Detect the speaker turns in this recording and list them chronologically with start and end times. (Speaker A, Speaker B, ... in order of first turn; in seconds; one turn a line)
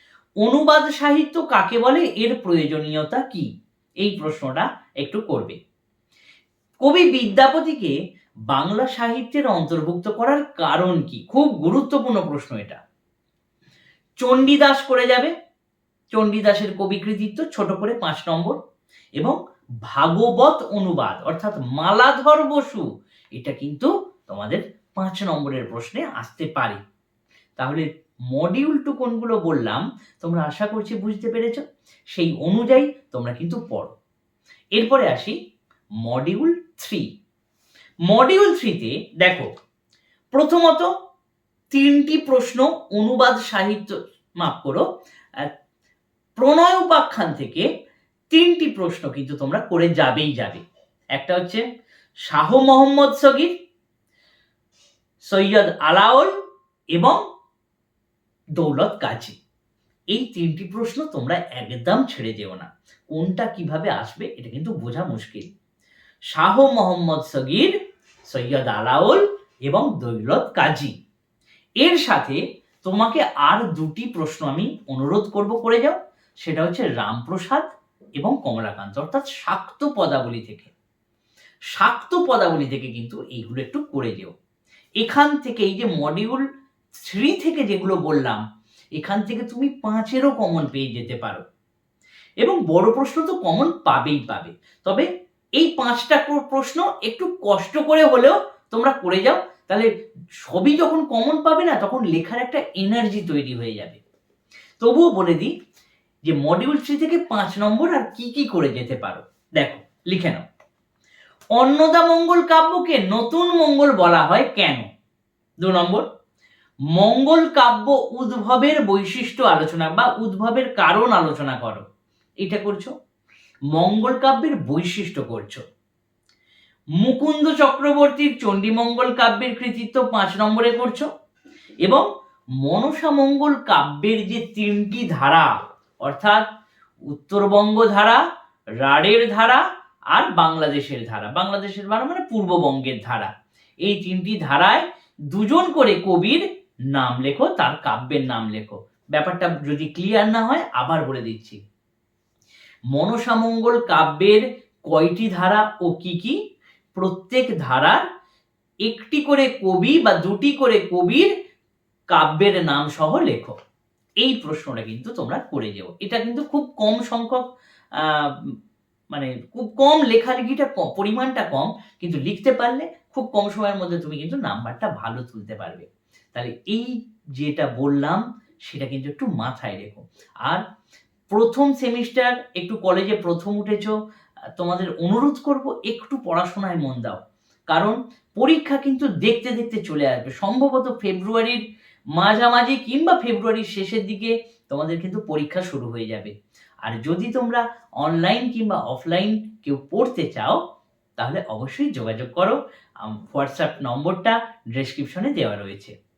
Speaker A: 0.4-3.5
Speaker A: 4.0-5.6
Speaker A: 6.8-7.9
Speaker A: 8.5-12.8
Speaker A: 14.2-15.3
Speaker A: 16.1-18.6
Speaker A: 19.2-22.8
Speaker A: 23.3-26.8
Speaker A: 27.6-33.9
Speaker A: 34.7-35.4
Speaker A: 36.0-37.0
Speaker A: 38.1-39.5
Speaker A: 40.3-40.9
Speaker A: 41.7-44.8
Speaker A: 46.4-47.7
Speaker A: 48.3-50.6
Speaker A: 51.1-51.6
Speaker A: 52.3-53.5
Speaker A: 55.3-56.3
Speaker A: 56.9-57.2
Speaker A: 58.6-59.4
Speaker A: 60.1-65.5
Speaker A: 66.3-67.7
Speaker A: 68.3-70.9
Speaker A: 71.8-80.7
Speaker A: 81.7-84.3
Speaker A: 85.0-86.4
Speaker A: 87.0-88.4
Speaker A: 89.0-91.4
Speaker A: 92.4-95.1
Speaker A: 95.6-99.9
Speaker A: 100.4-104.0
Speaker A: 104.8-105.5
Speaker A: 106.2-110.4
Speaker A: 111.5-114.8
Speaker A: 115.6-116.0
Speaker A: 116.9-121.8
Speaker A: 122.4-122.9
Speaker A: 123.7-125.6
Speaker A: 127.0-131.1
Speaker A: 132.6-135.5
Speaker A: 136.0-136.4
Speaker A: 137.1-138.2
Speaker A: 138.8-143.3
Speaker A: 143.8-151.6
Speaker A: 152.9-156.3
Speaker A: 156.9-158.0
Speaker A: 158.8-161.3
Speaker A: 162.1-163.6
Speaker A: 164.2-168.5
Speaker A: 169.1-180.6
Speaker A: 181.3-183.9
Speaker A: 184.6-187.2
Speaker A: 187.7-191.6
Speaker A: 192.1-200.6
Speaker A: 201.2-205.9